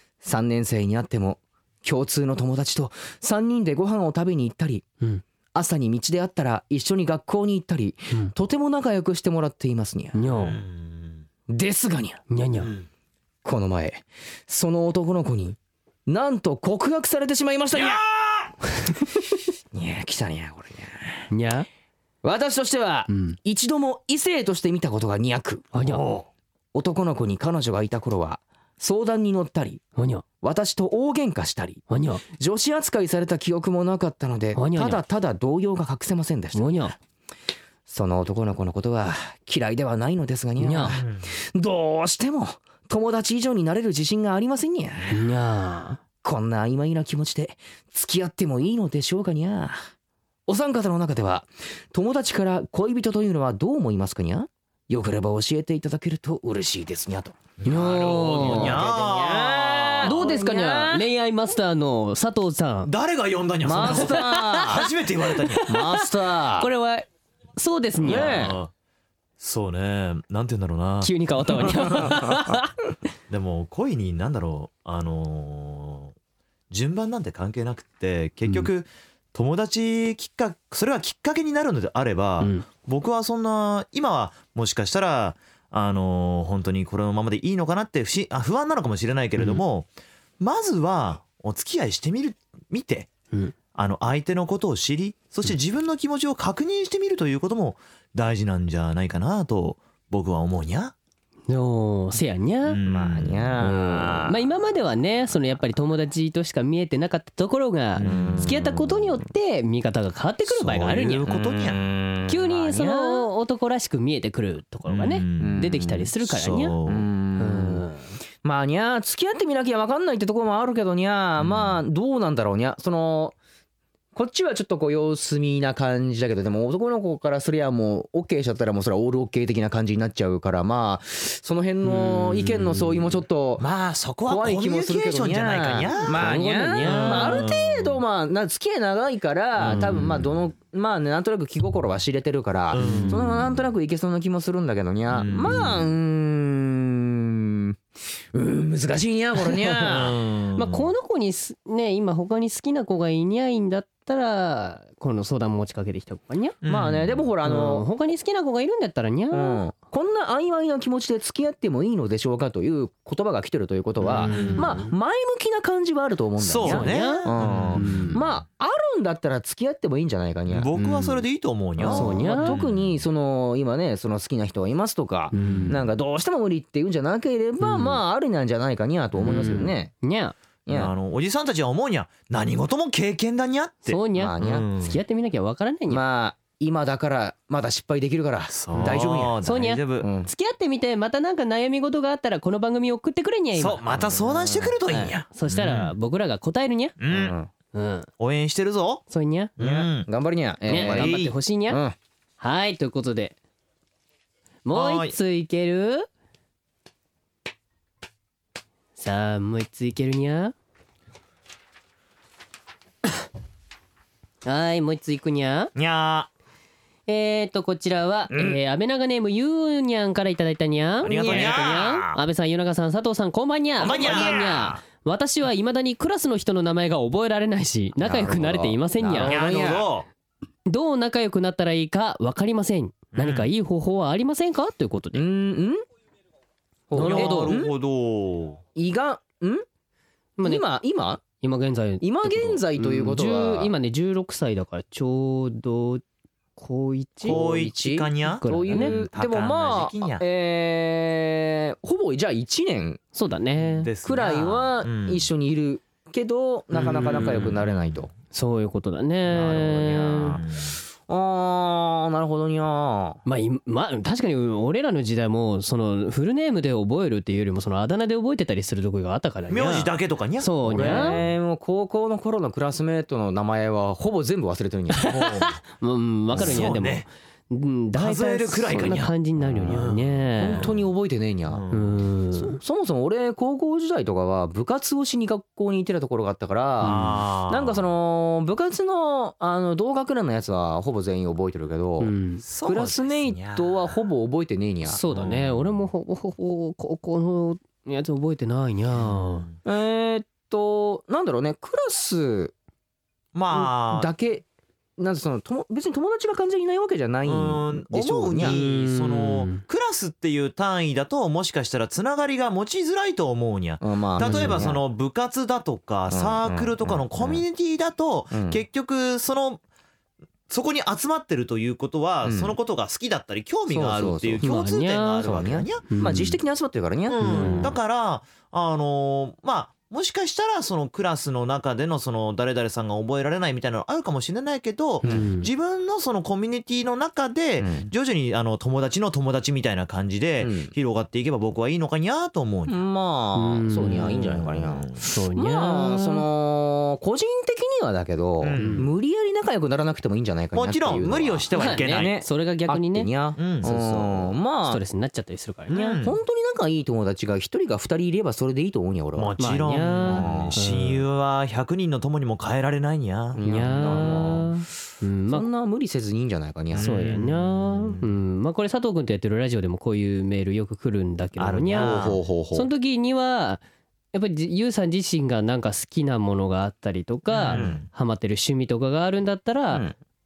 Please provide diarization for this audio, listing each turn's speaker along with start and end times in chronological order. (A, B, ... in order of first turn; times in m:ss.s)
0:00.2-0:04.8 A
0:05.5-0:10.2 A
0:10.1-0:10.6 B
0:10.3-0:11.2 C
0:11.5-0:12.2 A
0:12.3-0:12.7 B
0:12.6-0:12.8 C
0:13.4-0:18.0 A
0:17.7-0:18.5 C
0:19.7-0:21.3 A
0:21.3-0:21.7 B
0:22.2-0:25.7 A
0:23.1-0:23.4 B
0:25.7-0:26.0 B
0:25.8-0:26.3 C
0:26.7-0:29.8 A
0:30.0-0:30.2 B
0:30.4-0:36.9 A
0:31.9-0:32.2 B
0:34.5-0:35.0 B
0:36.5-0:36.9 B
0:37.9-0:45.2 A
0:40.6-0:41.0 B
0:40.9-0:41.3 C
0:45.1-0:46.0 B
0:46.2-0:49.8 A
0:50.5-1:01.1 A
0:57.6-1:00.3 C
0:57.7-0:58.8 B
1:00.0-1:02.9 B
1:02.8-1:05.7 C
1:03.6-1:04.9 A
1:03.8-1:04.8 B
1:05.5-1:08.4 B
1:05.6-1:06.7 A
1:08.0-1:08.6 A
1:08.0-1:08.7 C
1:09.4-1:12.2 C
1:11.0-1:12.7 B
1:13.3-1:16.1 C
1:16.7-1:29.9 C
1:22.4-1:22.6 B
1:30.4-1:33.1 C
1:33.7-1:40.9 C
1:41.5-1:42.8 B
1:42.6-1:43.6 C
1:42.8-1:44.4 A
1:43.6-1:51.3 B
1:48.0-1:48.7 C
1:48.0-1:49.1 A
1:50.5-1:51.8 C
1:51.2-1:53.3 A
1:52.3-1:56.7 B
1:54.9-1:55.7 C
1:55.4-1:56.1 A
1:56.2-1:57.0 C
1:56.8-1:57.8 A
1:57.4-1:58.0 B
1:58.4-2:03.4 A
2:01.4-2:01.8 C
2:04.1-2:13.7 A
2:11.8-2:13.0 B
2:13.6-2:18.0 C
2:14.2-2:27.8 A
2:16.1-2:17.4 B
2:19.6-2:20.2 C
2:22.7-2:23.4 C
2:22.8-2:23.2 B
2:25.1-2:25.9 C
2:28.3-2:30.2 A
2:29.8-2:30.9 C
2:30.5-2:36.5 B
2:36.6-2:37.2 C
2:36.6-2:37.8 A
2:37.4-2:39.6 B
2:39.3-2:50.8 A
2:44.0-2:44.9 B
2:44.1-2:44.7 C
2:46.4-2:48.1 C
2:46.6-2:48.2 B
2:50.5-2:52.9 C
2:50.8-2:51.1 B
2:51.8-2:59.9 A
2:51.9-2:52.6 B
2:55.3-2:55.8 B
2:55.4-2:55.7 C
2:57.6-2:58.0 B
2:59.2-3:00.3 B
3:00.6-3:00.9 A
3:00.7-3:05.0 C
3:03.9-3:06.0 B
3:04.1-3:04.6 A
3:05.9-3:09.4 A
3:08.5-3:10.1 C
3:08.7-3:13.8 B
3:10.0-3:10.3 A
3:13.6-3:15.9 C
3:13.9-3:15.1 A
3:15.3-3:16.9 B
3:17.0-3:17.4 C
3:17.1-3:17.5 A
3:17.7-3:18.1 B
3:18.2-3:19.0 C
3:19.1-3:19.5 B
3:19.6-3:20.1 C
3:19.6-3:22.0 A
3:20.7-3:21.8 B
3:20.7-3:21.3 C
3:22.4-3:23.4 B
3:24.6-3:26.1 B
3:24.7-3:25.2 C
3:29.0-3:30.5 B
3:34.4-3:35.7 B
3:35.7-3:36.3 C
3:37.1-3:49.3 B
3:38.3-3:38.6 A
3:41.0-3:41.8 A
3:41.0-3:42.2 C
3:43.8-3:44.8 C
3:43.8-3:44.5 A
3:48.0-3:49.9 A
3:49.2-3:50.1 C
3:50.6-3:55.2 B
3:53.1-3:53.5 C
3:55.1-3:55.8 A
3:56.9-3:57.7 A
3:56.9-3:57.6 B
3:57.0-3:58.6 C
3:58.8-3:59.6 A
4:00.4-4:00.6 B
4:00.4-4:01.2 A
4:01.4-4:06.0 B
4:02.0-4:03.7 A
4:06.6-4:07.4 B
4:07.2-4:13.0 A
4:07.2-4:10.2 C
4:08.4-4:09.0 B
4:13.1-4:13.9 B
4:13.6-4:15.3 C
4:14.0-4:18.1 A
4:16.8-4:17.3 B
4:16.9-4:17.8 C
4:18.3-4:20.4 B
4:19.3-4:20.4 A
4:20.2-4:20.8 C
4:21.1-4:23.2 A
4:23.2-4:31.2 B
4:29.5-4:31.1 C
4:30.7-4:35.1 A
4:35.0-4:40.7 B
4:35.1-4:35.6 C
4:36.3-4:37.1 C
4:36.4-4:36.7 A
4:38.0-4:40.8 C
4:40.4-4:41.6 A
4:41.5-4:42.0 C
4:41.7-4:42.6 B
4:42.4-4:55.0 A
4:46.8-4:47.8 C
4:46.8-4:47.1 B
4:52.0-4:52.4 B
4:52.4-4:54.0 C
4:54.8-4:59.5 B
4:55.1-4:55.8 C
4:58.9-4:59.6 C
4:59.6-5:02.5 A
5:03.3-5:04.1 C
5:03.5-5:04.4 A
5:05.0-5:08.6 A
5:07.2-5:19.6 C
5:08.4-5:09.6 B
5:13.8-5:14.8 A
5:14.2-5:14.7 B
5:16.1-5:17.4 A
5:18.3-5:18.6 A
5:20.5-5:25.9 C
5:22.2-5:22.6 A
5:23.7-5:24.4 A
5:24.4-5:25.3 B
5:25.2-5:27.7 A
5:25.9-5:26.4 B
5:27.1-5:42.8 C
5:27.2-5:27.7 B
5:35.0-5:35.5 B
5:37.6-5:37.9 A
5:40.4-5:40.7 A
5:42.7-5:54.8 A
5:43.3-5:44.1 B
5:43.9-5:45.0 C
5:45.0-5:46.2 B
5:48.4-5:48.9 C
5:48.6-5:48.9 B
5:50.5-5:52.2 C
5:51.5-5:53.1 B
5:53.4-5:54.2 C
5:54.7-5:55.9 B
5:55.7-5:56.2 C
5:55.7-5:59.3 A
5:59.2-6:04.4 C
5:59.4-6:01.0 B
6:00.0-6:00.6 A
6:03.3-6:04.5 A
6:03.4-6:05.5 B
6:05.3-6:07.1 A
6:06.7-6:08.1 C
6:06.8-6:12.0 B
6:11.4-6:12.2 C
6:11.8-6:12.7 A
6:12.5-6:13.6 B
6:14.1-6:19.8 B
6:17.3-6:17.9 C
6:17.5-6:17.8 A